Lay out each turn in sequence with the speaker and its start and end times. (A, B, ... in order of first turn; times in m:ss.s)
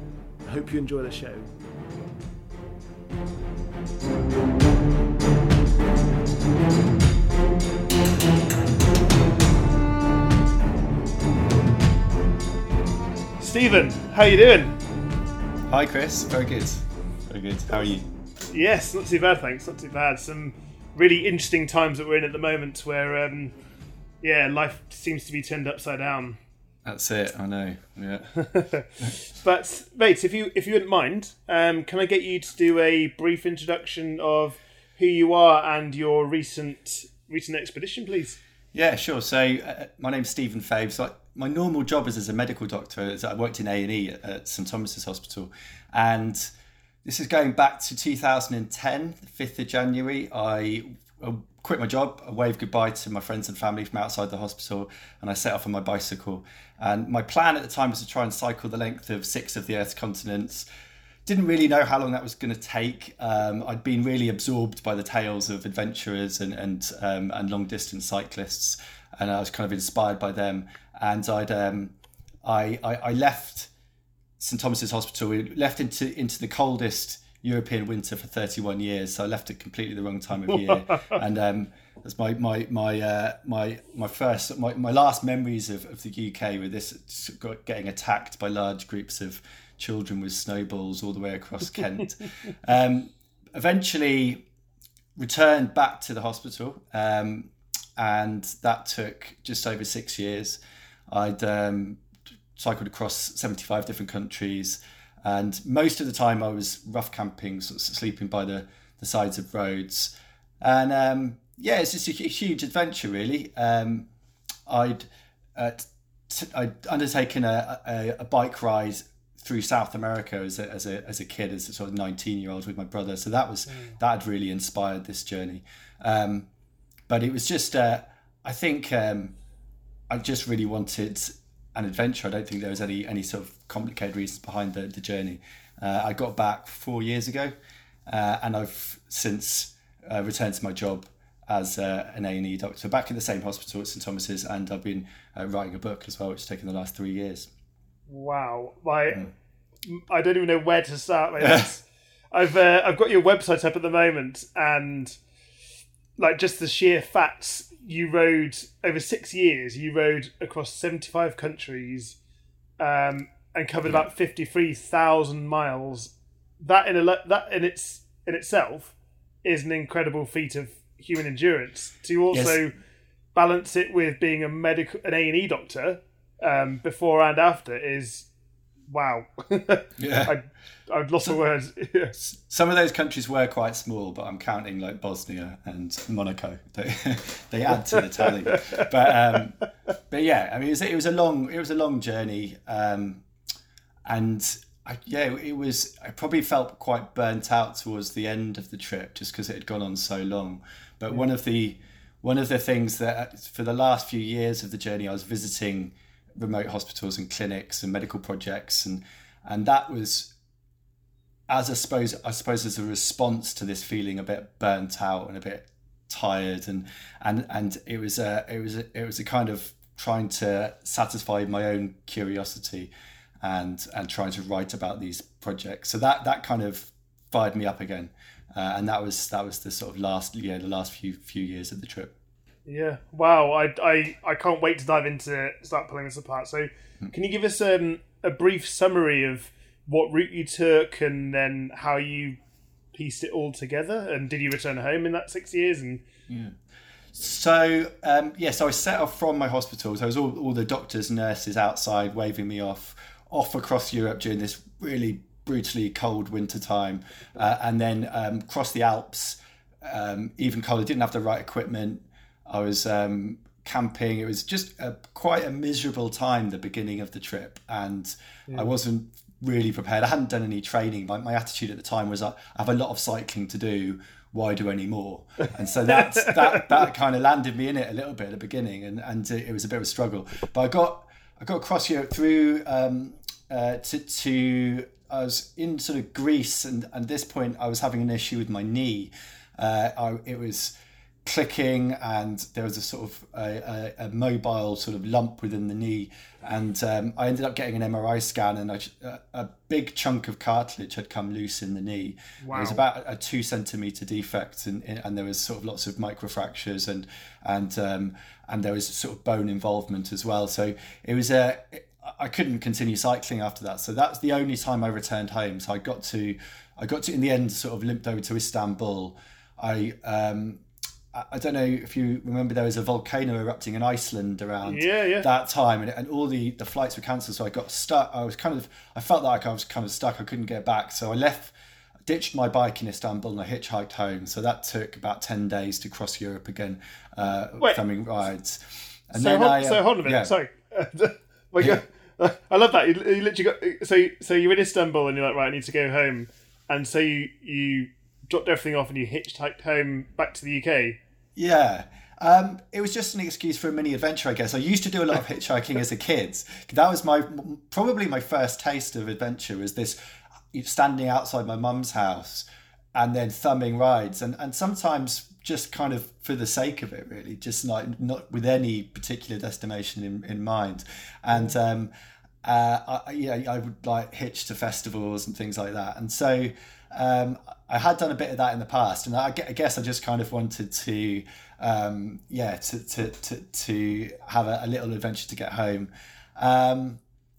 0:00.4-0:01.5 A
0:13.4-0:14.8 A
0:15.7-0:18.1 B
0:18.5-0:23.5 A
0:24.2-0:26.4 A
0:26.8-0:28.3 B
0:28.3-0:38.4 A
0:38.7-0:46.5 B
0:47.0-1:00.6 B
1:01.2-1:13.7 B
1:14.4-1:34.4 B
1:20.6-1:21.2 A
1:35.2-1:42.0 B
1:42.6-1:54.1 B
1:54.6-2:06.5 B
2:07.1-2:09.4 B
2:10.1-2:17.5 B
2:18.1-2:27.5 B
2:28.1-2:29.3 A
2:29.8-2:35.2 A
2:31.4-2:31.7 B
2:36.2-2:42.2 A
2:42.8-2:52.7 A
2:52.3-2:52.6 B
2:53.3-2:58.3 A
2:58.9-3:02.2 A
3:00.0-3:00.3 B
3:02.2-3:13.2 B
3:07.8-3:08.9 A
3:14.0-3:30.3 B
3:31.5-3:52.1 B
3:52.6-4:02.4 A
4:02.9-4:06.0 A
4:06.3-4:06.6 B
4:07.1-4:50.7 B
4:28.5-4:28.8 A
4:35.9-4:36.6 A
4:51.2-5:20.6 B
5:02.4-5:02.8 A
5:21.1-5:31.5 B
5:24.6-5:25.3 A
5:32.0-5:40.3 B
5:39.1-5:51.0 A
5:51.4-6:00.0 B
6:00.5-6:11.9 B
6:12.4-6:27.0 B